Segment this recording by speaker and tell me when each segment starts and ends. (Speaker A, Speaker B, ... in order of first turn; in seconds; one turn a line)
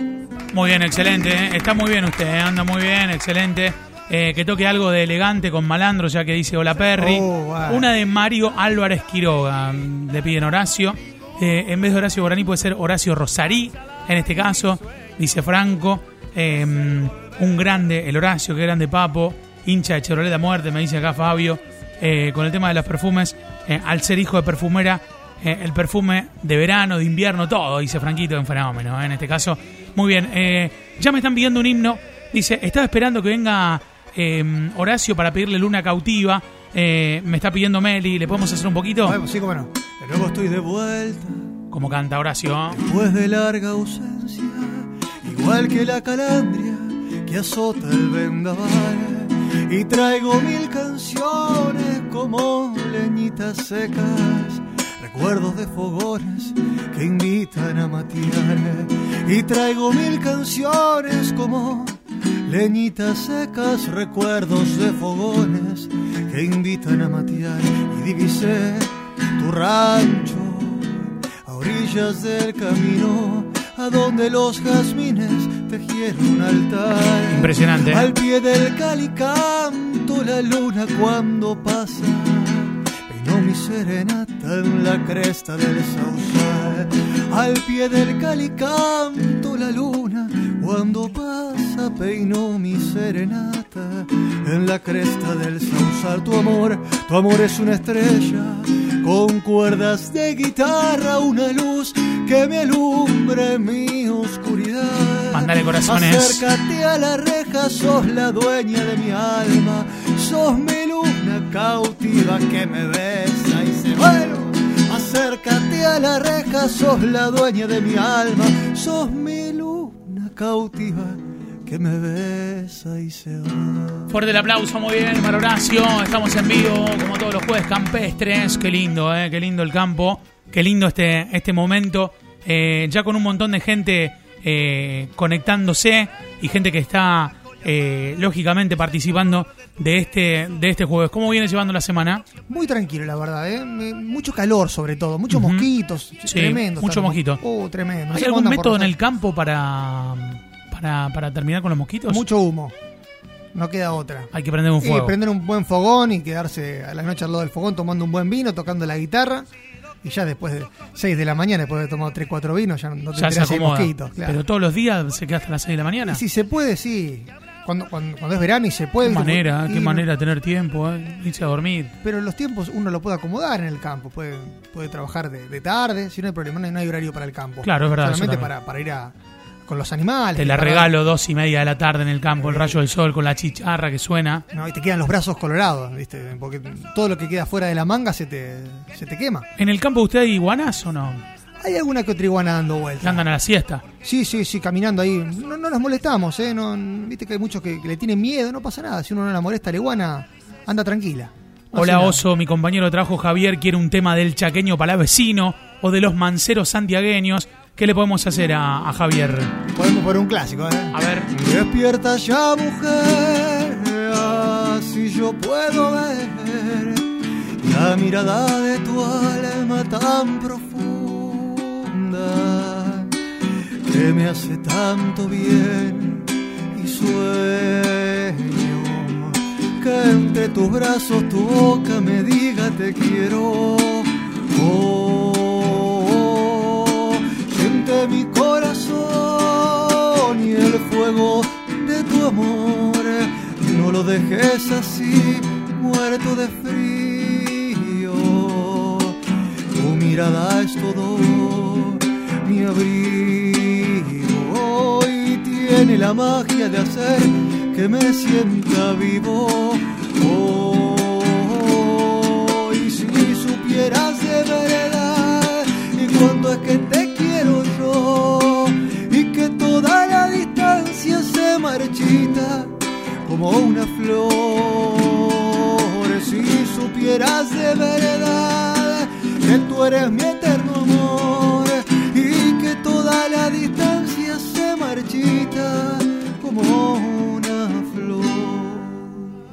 Speaker A: 0.5-39.2
Speaker B: 7.0-7.9
Speaker B: 39.0-41.5
Speaker A: 41.7-42.8
Speaker B: 42.7-124.1
Speaker A: 77.3-78.1
Speaker A: 105.3-106.4
Speaker A: 124.1-142.2
Speaker B: 142.5-148.9
Speaker A: 145.3-145.7
Speaker A: 146.2-147.4
Speaker A: 148.1-152.2
Speaker B: 152.1-152.7
Speaker B: 153.5-159.5
Speaker A: 154.3-155.2
Speaker B: 160.0-164.4
Speaker A: 163.1-166.2
Speaker B: 166.0-170.1
Speaker A: 169.0-171.9
Speaker B: 172.0-179.1
Speaker A: 177.6-178.5
Speaker B: 179.7-180.9
Speaker A: 180.3-184.4
Speaker B: 182.4-182.8
Speaker B: 184.5-189.5
Speaker A: 189.6-191.2
Speaker B: 191.6-193.3
Speaker A: 193.0-193.8
Speaker B: 194.0-202.3
Speaker A: 201.7-209.5
Speaker B: 209.7-223.1
Speaker A: 210.9-211.3
Speaker B: 223.8-249.2
Speaker B: 249.7-289.2